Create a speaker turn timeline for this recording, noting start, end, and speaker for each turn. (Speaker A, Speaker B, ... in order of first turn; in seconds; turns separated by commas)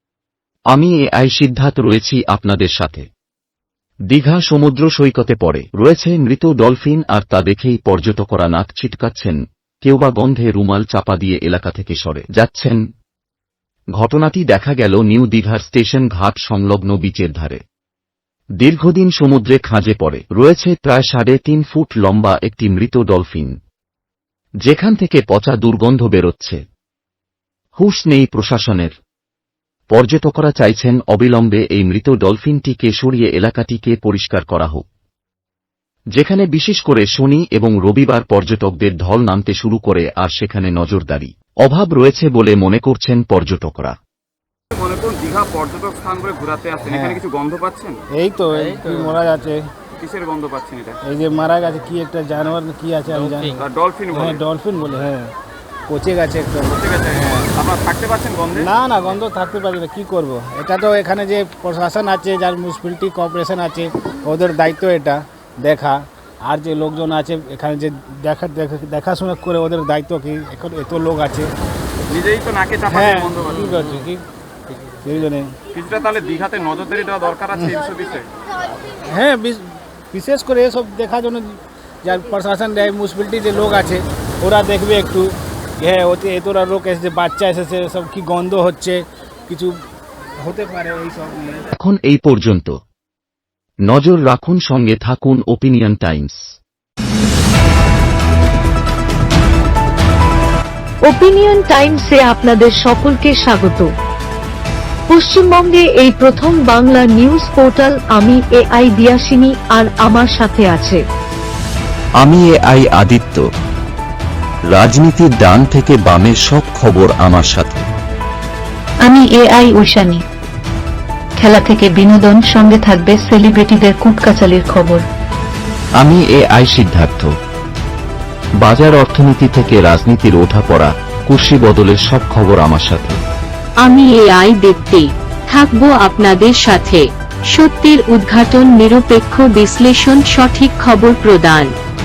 Speaker A: 0.7-3.1, Speaker A: 4.1-12.8, Speaker A: 14.0-17.6, Speaker A: 18.6-23.6, Speaker A: 24.6-26.6, Speaker A: 27.8-28.9, Speaker A: 29.9-34.8, Speaker A: 36.1-44.0, Speaker B: 44.7-48.0, Speaker C: 46.8-47.2, Speaker C: 48.1-49.6, Speaker B: 50.0-51.0, Speaker C: 51.0-55.3, Speaker B: 53.6-54.4, Speaker C: 55.9-57.5, Speaker B: 56.7-58.6, Speaker C: 58.6-71.5, Speaker B: 72.1-73.5, Speaker C: 72.9-74.2, Speaker C: 75.0-75.5, Speaker B: 75.8-78.3, Speaker C: 79.1-89.8, Speaker C: 90.4-91.7, Speaker A: 91.8-92.8, Speaker A: 93.9-96.4, Speaker D: 101.0-103.9, Speaker D: 105.1-111.0, Speaker A: 112.2-113.5, Speaker A: 114.7-117.9, Speaker E: 119.1-120.2, Speaker E: 121.4-125.1, Speaker A: 126.0-127.3, Speaker A: 128.6-133.2, Speaker F: 133.8-141.7